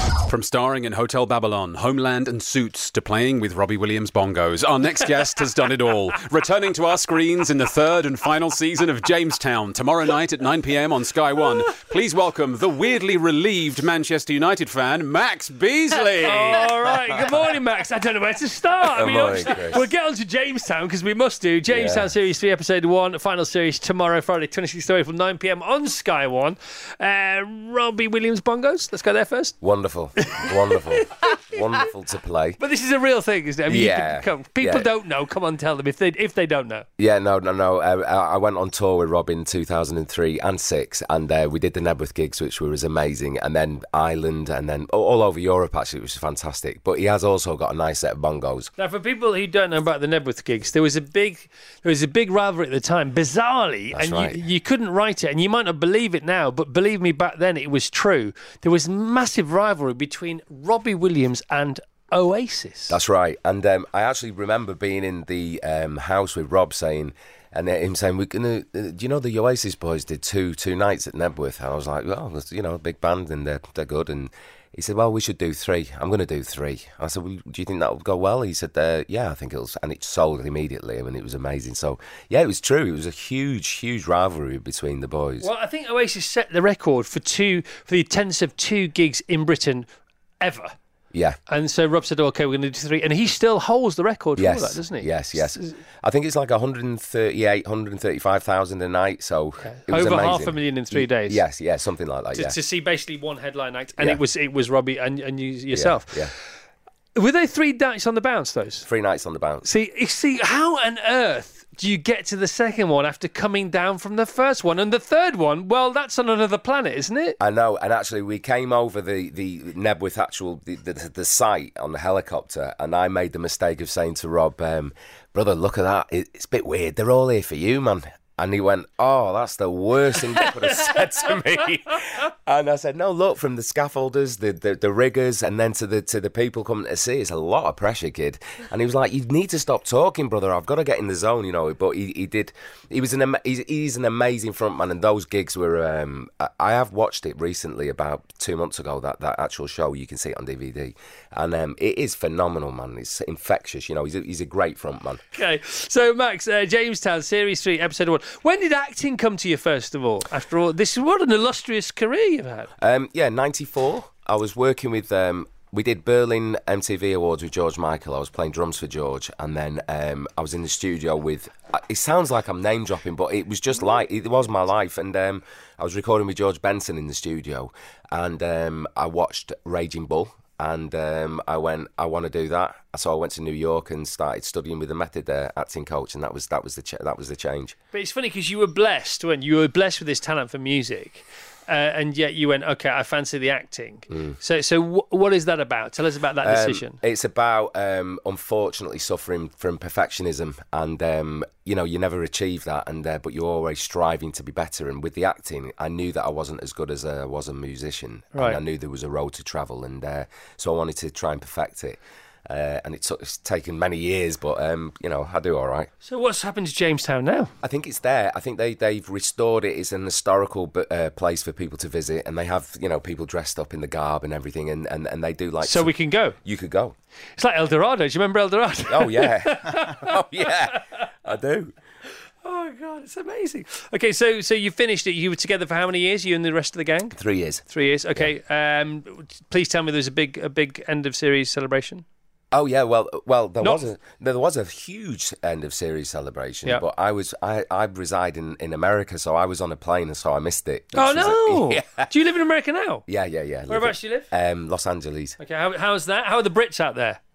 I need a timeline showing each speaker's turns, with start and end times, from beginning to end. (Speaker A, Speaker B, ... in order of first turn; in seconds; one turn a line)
Speaker A: 0.3-16.7
Speaker B: 16.2-29.6
Speaker C: 18.8-19.8
Speaker C: 21.7-22.1
Speaker C: 29.6-32.6
Speaker B: 30.2-31.4
Speaker B: 32.6-36.9
Speaker C: 33.7-34.9
Speaker C: 37.0-48.7
Speaker B: 48.8-63.0
Speaker C: 53.9-54.4
Speaker C: 62.9-85.5
Speaker B: 85.4-89.9
Speaker B: 90.4-90.8
Speaker B: 91.5-95.8
Speaker C: 94.4-102.6
Speaker B: 99.6-101.4
Speaker B: 102.3-106.3
Speaker C: 105.7-106.3
Speaker B: 107.2-108.9
Speaker C: 108.9-109.7
Speaker B: 109.6-117.4
Speaker C: 117.4-155.2
Speaker B: 130.4-131.6
Speaker B: 155.3-162.7
Speaker C: 162.8-187.8
Speaker B: 187.9-197.0
Speaker C: 194.1-194.4
Speaker C: 196.4-215.9
Speaker B: 208.3-208.6
Speaker B: 216.0-217.5
Speaker C: 217.6-225.9
Speaker B: 225.6-226.4
Speaker C: 226.4-226.9
Speaker B: 227.4-230.8
Speaker C: 228.9-231.7
Speaker B: 232.4-242.0
Speaker C: 237.2-237.6
Speaker C: 242.5-252.1
Speaker B: 250.9-253.1
Speaker C: 253.1-255.4
Speaker B: 253.7-254.3
Speaker B: 255.4-257.2